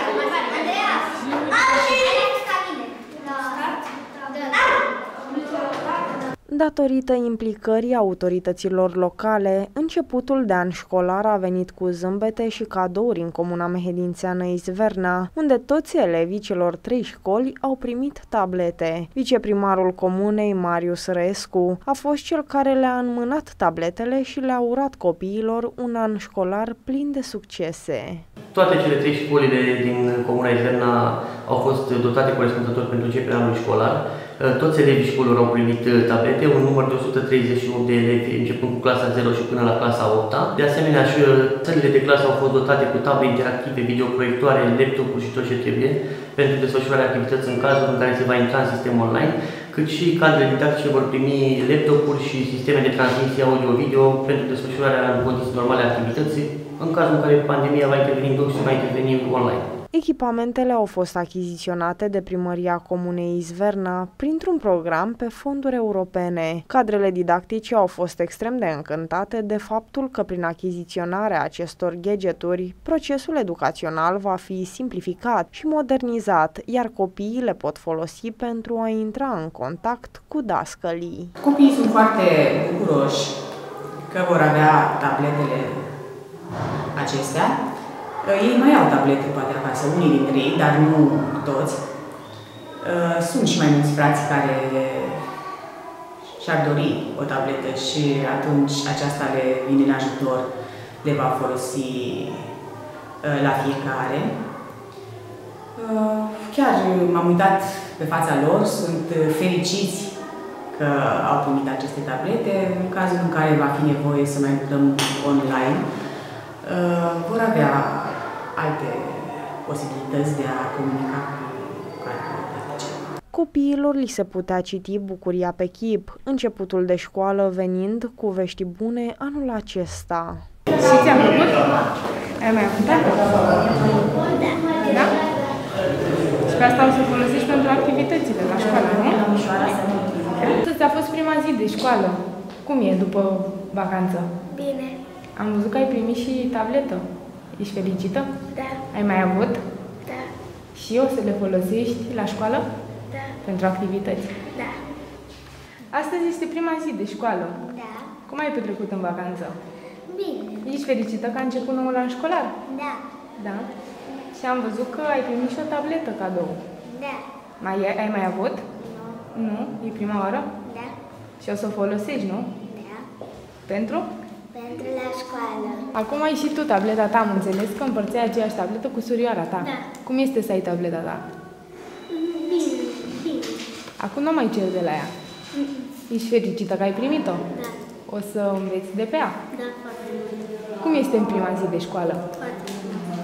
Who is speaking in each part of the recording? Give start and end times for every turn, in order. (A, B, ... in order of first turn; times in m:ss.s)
0:00.3-0:00.9 A
0:01.5-0:03.4 A
0:04.3-0:04.7 A
0:06.5-0:28.2 B
0:28.5-0:59.7 C
0:59.9-1:21.3 B
1:21.4-1:23.3 D
1:24.1-1:25.8 D
1:26.9-1:27.6 D
1:28.2-1:31.8 D
1:32.8-1:35.2 D
1:36.4-1:40.5 D
1:41.0-1:42.4 D
1:43.2-1:44.3 D
1:45.8-1:50.1 D
1:50.7-1:55.8 D
1:56.6-2:03.0 D
2:03.3-2:10.4 B
2:10.7-2:11.8 E
2:12.4-2:13.7 E
2:14.2-2:14.7 A
2:14.8-2:15.2 E
2:16.5-2:19.2 E
2:20.3-2:24.3 E
2:24.5-2:25.0 A
2:25.4-2:27.0 E
2:27.6-2:28.3 E
2:28.5-2:28.8 A
2:28.9-2:29.6 E
2:30.0-2:30.3 A
2:30.7-2:32.6 E
2:33.4-2:34.4 E
2:34.4-2:34.8 A
2:35.9-2:37.6 E
2:37.6-2:38.1 A
2:38.2-2:39.5 E
2:40.1-2:40.6 A
2:40.6-2:42.5 E
2:42.6-2:43.0 A
2:43.4-2:43.7 E
2:44.3-2:46.6 E
2:46.9-2:47.2 A
2:47.6-2:48.6 E
2:48.8-2:49.2 A
2:49.3-2:50.5 E
2:50.6-2:50.9 A
2:51.4-2:52.5 E
2:52.6-2:53.1 A
2:53.7-2:54.1 E
2:54.5-2:55.8 A
2:55.9-3:01.2 E
2:59.6-2:59.9 A
3:02.1-3:03.6 A
3:04.0-3:05.1 E
3:05.5-3:05.9 A
3:06.1-3:07.4 E
3:07.5-3:07.8 A
3:08.1-3:09.4 E
3:09.5-3:10.4 A
3:10.8-3:12.2 E
3:12.4-3:13.0 A